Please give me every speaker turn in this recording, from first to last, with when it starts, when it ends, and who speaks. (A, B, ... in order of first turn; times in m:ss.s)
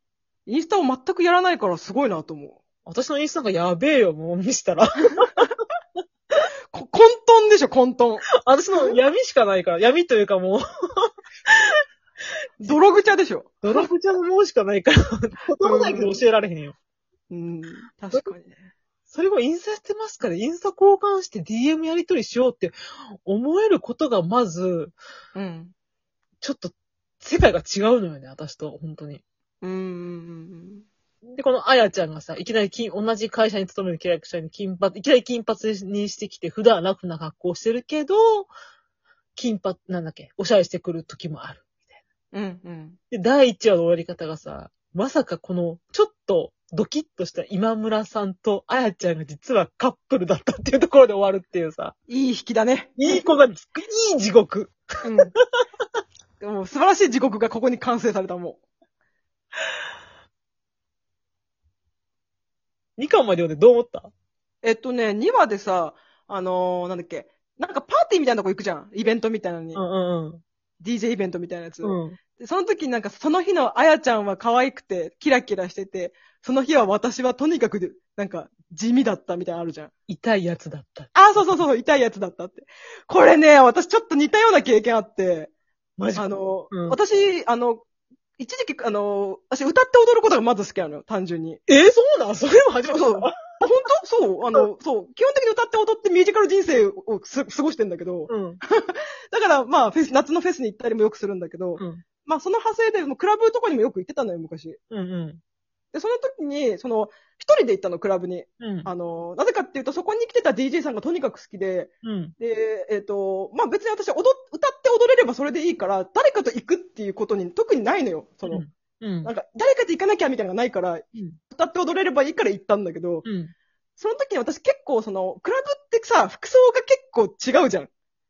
0:00.5-0:02.6 A
0:02.8-0:05.5 B
0:06.7-0:08.3 A
0:08.4-0:11.7 B
0:12.6-0:13.8 A
0:13.6-0:16.8 B
0:15.6-0:16.2 A
0:17.3-0:18.6 A
0:19.1-0:24.9 B
0:25.3-0:25.7 A
0:26.4-0:29.2 B
0:29.6-0:30.8 A
0:31.3-0:38.5 B
0:39.4-0:41.7 B
0:42.3-0:43.0 A
0:43.1-0:51.9 B
0:52.1-0:53.2 A
0:53.0-0:54.7 B
0:55.0-0:55.3 A
0:56.4-0:58.6 A
1:03.0-1:04.1 B
1:04.6-1:09.8 A
1:09.8-1:10.4 B
1:10.8-1:19.9 A
1:11.8-1:12.2 B
1:20.1-1:21.6 B
1:21.1-1:25.5 A
1:26.0-1:27.0 B
1:26.1-1:27.8 A
1:28.4-1:31.6 A
1:31.7-1:33.6 B
1:32.9-1:44.8 A
1:38.3-1:38.6 B
1:41.8-1:42.0 B
1:44.9-1:45.4 B
1:45.9-1:58.6 A
1:48.6-1:48.9 B
1:52.0-1:52.3 B
1:58.5-1:59.3 B
1:59.2-2:03.2 A
2:03.2-2:03.5 B
2:04.0-2:07.9 A